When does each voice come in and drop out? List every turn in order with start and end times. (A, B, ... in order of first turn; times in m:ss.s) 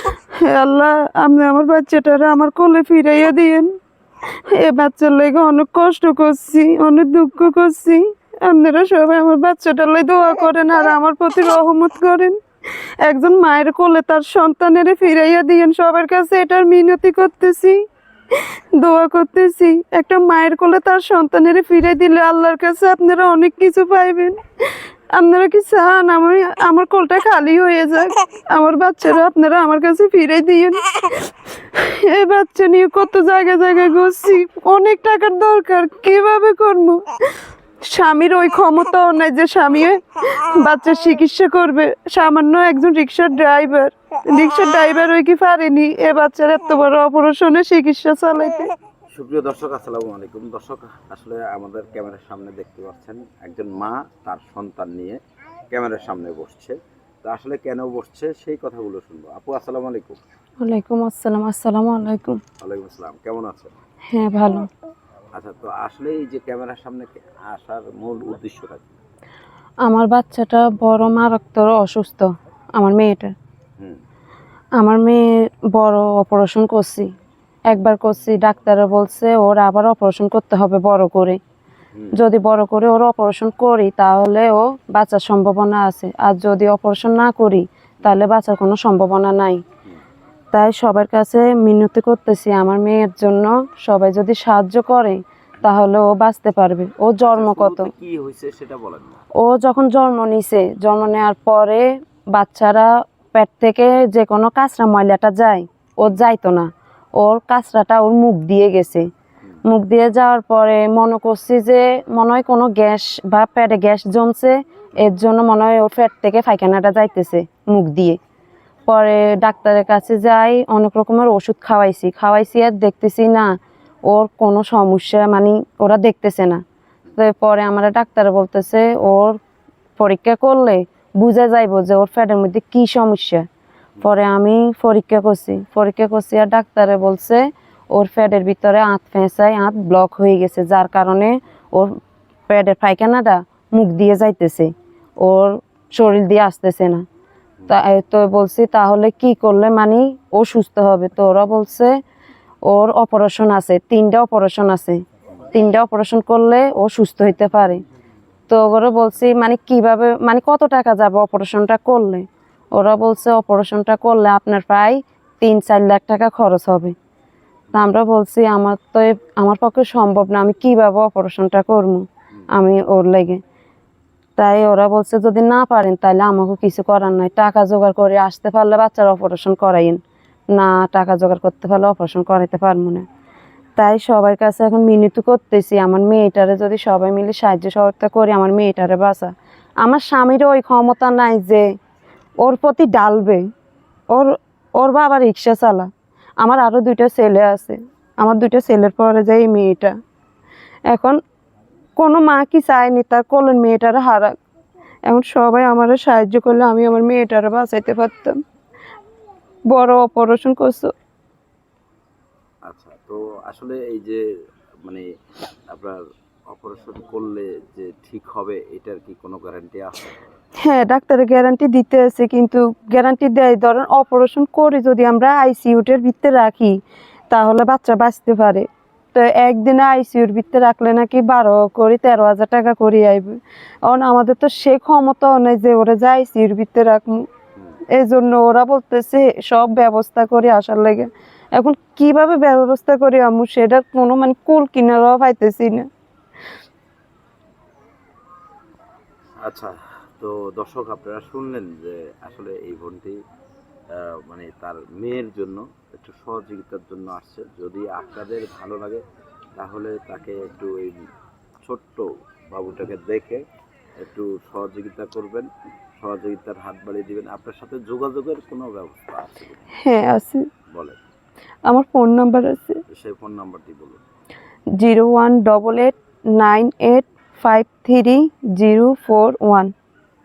0:00.3-0:03.7 A
0:04.5-0:12.4 A
0:13.0-0:17.8 A
0:18.8-0:24.4 A
0:25.1-0:37.0 A
0:37.8-0:48.7 A
0:49.1-0:55.2 B
0:55.7-1:00.2 B
1:00.6-1:02.4 A
1:02.6-1:03.7 B
1:04.1-1:04.7 A
1:05.4-1:09.0 B
1:09.8-1:13.3 A
1:14.8-1:15.2 A
1:15.7-1:17.1 A
1:17.7-1:21.4 A
1:22.1-1:29.6 A
1:30.5-1:37.9 A
1:37.2-1:39.2 B
1:39.4-1:49.1 A
1:49.7-1:58.2 A
1:58.9-2:06.6 A
2:07.2-2:09.4 A
2:10.0-2:13.4 A
2:14.0-2:21.9 A
2:22.5-2:27.0 A
2:27.7-2:31.9 A
2:32.6-2:35.0 A
2:35.5-2:37.8 A
2:38.5-2:46.9 A
2:47.7-2:53.4 A
2:54.4-3:00.0 A
3:00.5-3:03.1 A
3:03.8-3:11.7 A
3:12.4-3:13.4 A
3:14.1-3:15.9 A
3:16.4-3:20.0 A
3:20.9-3:21.2 A
3:22.0-3:24.3 A
3:25.1-3:28.4 A
3:29.7-3:30.9 A
3:32.7-3:34.2 B
3:35.7-3:40.2 B
3:40.6-3:46.8 A
3:47.3-3:57.3 A
3:57.9-4:05.9 A
4:09.4-4:13.2 B
4:13.9-4:19.0 B
4:19.6-4:21.0 B
4:21.6-4:23.4 B
4:24.0-4:25.5 B
4:26.0-4:29.6 B
4:29.8-4:30.4 A
4:30.7-4:31.0 B
4:31.7-4:32.8 A
4:32.9-4:34.0 B
4:34.8-4:39.7 A